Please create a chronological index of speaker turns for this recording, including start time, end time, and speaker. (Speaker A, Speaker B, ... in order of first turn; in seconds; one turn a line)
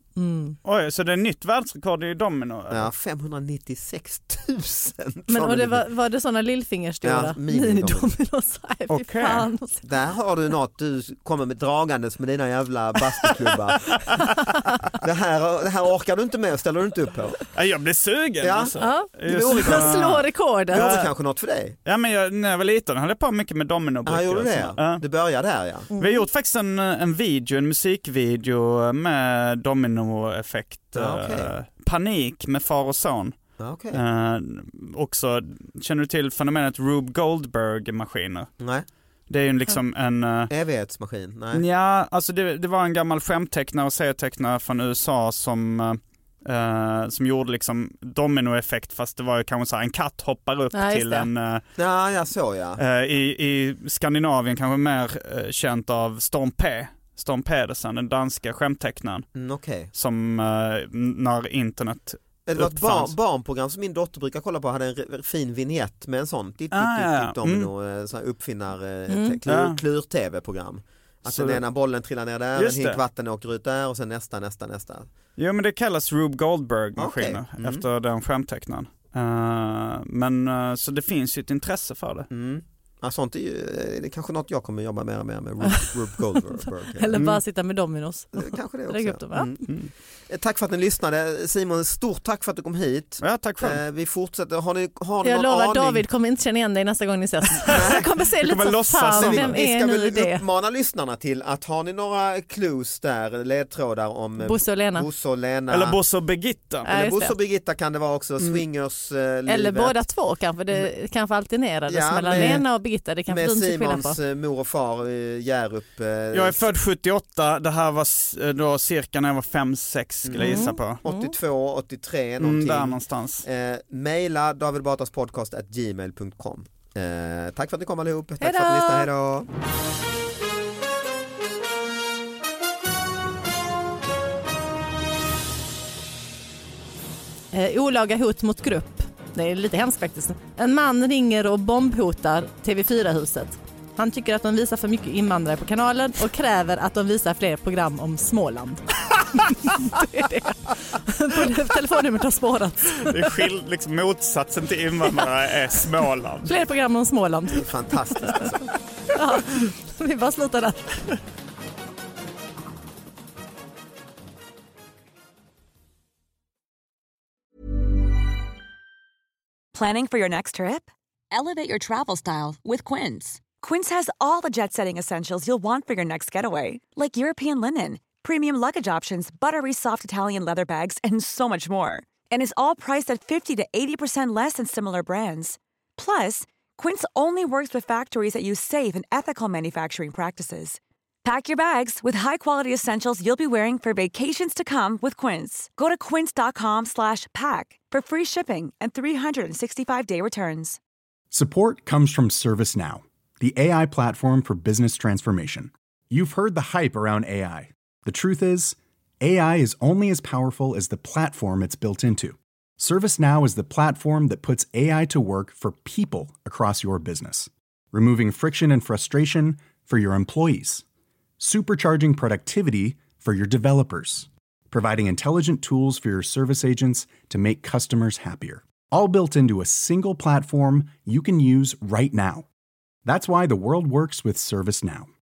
Speaker A: 0.2-0.6
Speaker B: 0.6-2.9
Speaker C: 2.7-5.8
Speaker A: 5.3-9.8
Speaker C: 7.0-8.2
Speaker B: 8.9-9.5
Speaker C: 9.8-14.0
Speaker C: 15.0-17.4
Speaker B: 17.5-21.1
Speaker C: 18.4-20.2
Speaker A: 18.8-21.0
Speaker C: 20.7-21.8
Speaker B: 21.9-25.0
Speaker C: 24.1-25.9
Speaker A: 25.9-26.2
Speaker B: 26.0-33.4
Speaker C: 30.9-31.5
Speaker C: 33.6-34.0
Speaker B: 33.9-38.5
Speaker C: 38.6-38.9
Speaker B: 39.3-40.5
Speaker C: 40.5-41.6
Speaker B: 41.5-51.6
Speaker A: 50.7-51.3
Speaker C: 51.8-52.8
Speaker B: 52.8-59.3
Speaker C: 59.4-59.9
Speaker B: 59.9-63.1
Speaker C: 62.5-75.1
Speaker B: 66.7-67.7
Speaker A: 69.1-69.4
Speaker B: 69.5-69.8
Speaker B: 71.3-71.6
Speaker B: 72.6-73.0
Speaker B: 75.4-82.3
Speaker C: 77.0-77.8
Speaker C: 82.3-87.2
Speaker A: 86.9-89.5
Speaker B: 87.2-87.4
Speaker C: 88.3-89.7
Speaker C: 90.3-96.1
Speaker B: 93.2-93.8
Speaker A: 95.2-100.4
Speaker C: 97.7-98.1
Speaker B: 98.3-99.5
Speaker C: 99.1-106.0
Speaker A: 104.4-105.1
Speaker B: 105.7-106.9
Speaker C: 106.8-110.1
Speaker A: 106.9-107.3
Speaker A: 109.5-114.2
Speaker C: 111.9-112.7
Speaker B: 112.3-112.6
Speaker C: 113.3-116.6
Speaker B: 116.3-121.0
Speaker C: 120.2-129.5
Speaker A: 120.4-121.3
Speaker B: 122.4-123.5
Speaker A: 128.4-129.1
Speaker A: 137.5-153.3
Speaker B: 153.0-156.5
Speaker A: 156.4-157.7
Speaker C: 157.5-158.7
Speaker A: 158.3-158.5
Speaker A: 159.1-161.1
Speaker D: 169.7-200.8
Speaker E: 201.3-220.8
Speaker E: 221.4-232.5
Speaker E: 233.1-235.1